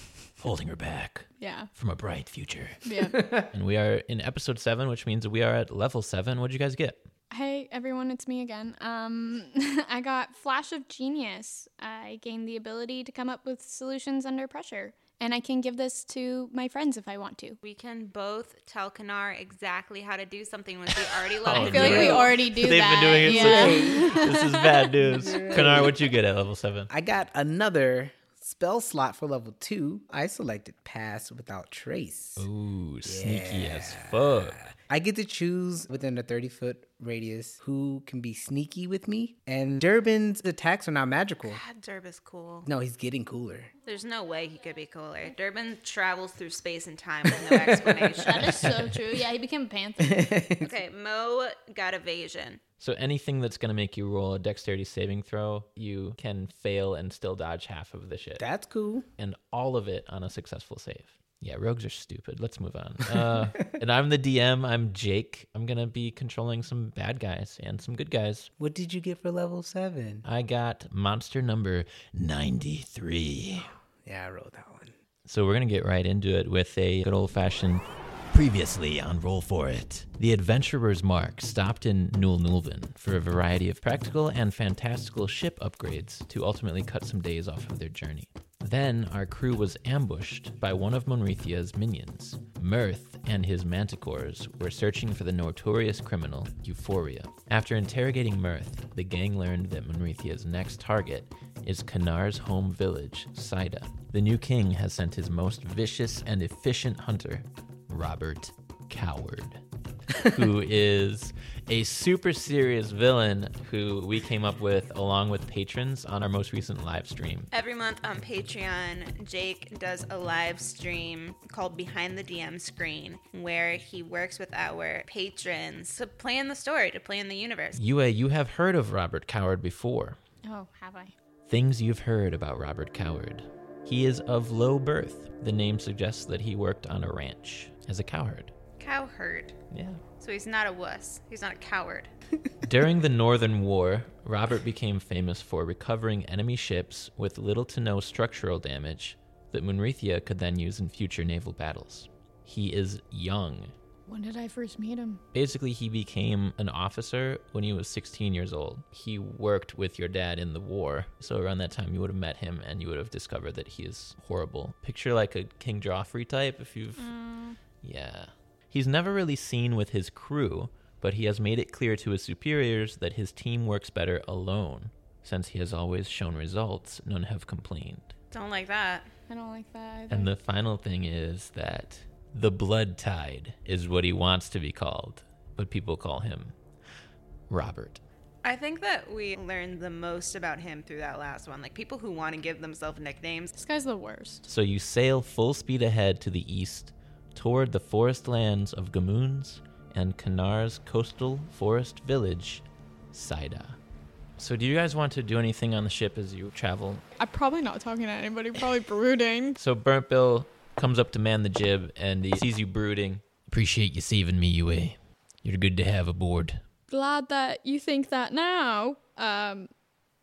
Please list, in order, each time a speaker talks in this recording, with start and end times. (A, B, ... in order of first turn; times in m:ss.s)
0:00.4-0:02.8 A
0:01.4-0:01.7 B
0:02.8-0:03.2 B
0:03.1-0:03.5 C
0:03.5-0:07.1 A
0:07.3-0:17.6 B
0:17.6-0:22.3 D
0:21.5-0:26.9 A
0:21.5-0:25.4 B
0:21.6-0:22.3 C
0:23.2-0:24.4 C
0:25.0-0:26.0 C
0:26.9-0:32.5 C
0:32.4-0:34.7 A
0:33.0-0:41.6 C
0:41.4-0:42.7 D
0:42.6-0:43.7 C
0:43.9-0:48.6 D
0:47.5-0:48.1 C
0:48.2-0:50.1 B
0:50.0-0:50.7 C
0:50.6-0:52.6 D
0:52.8-0:58.4 A
0:58.4-0:59.1 C
0:59.2-1:08.5 A
1:08.6-1:10.2 C
1:10.2-1:13.7 A
1:14.0-1:14.9 C
1:15.3-1:49.6 A
1:50.2-1:57.5 A
1:57.5-2:07.8 D
2:07.8-2:10.2 A
2:10.4-2:11.1 B
2:11.5-2:18.5 A
2:18.8-2:19.6 D
2:19.7-2:20.0 A
2:20.2-2:22.1 D
2:22.6-2:33.7 A
2:34.1-2:35.2 B
2:35.3-2:47.1 A
2:47.0-2:47.6 B
2:47.8-2:58.1 A
2:58.3-2:59.1 D
2:59.3-3:00.3 B
3:00.1-3:06.6 A
3:07.5-3:08.0 A
3:08.4-3:13.6 D
3:13.6-3:14.4 B
3:14.5-3:23.8 A
3:24.4-3:27.0 A
3:27.2-3:29.6 B
3:29.6-3:36.6 A
3:36.9-3:39.7 B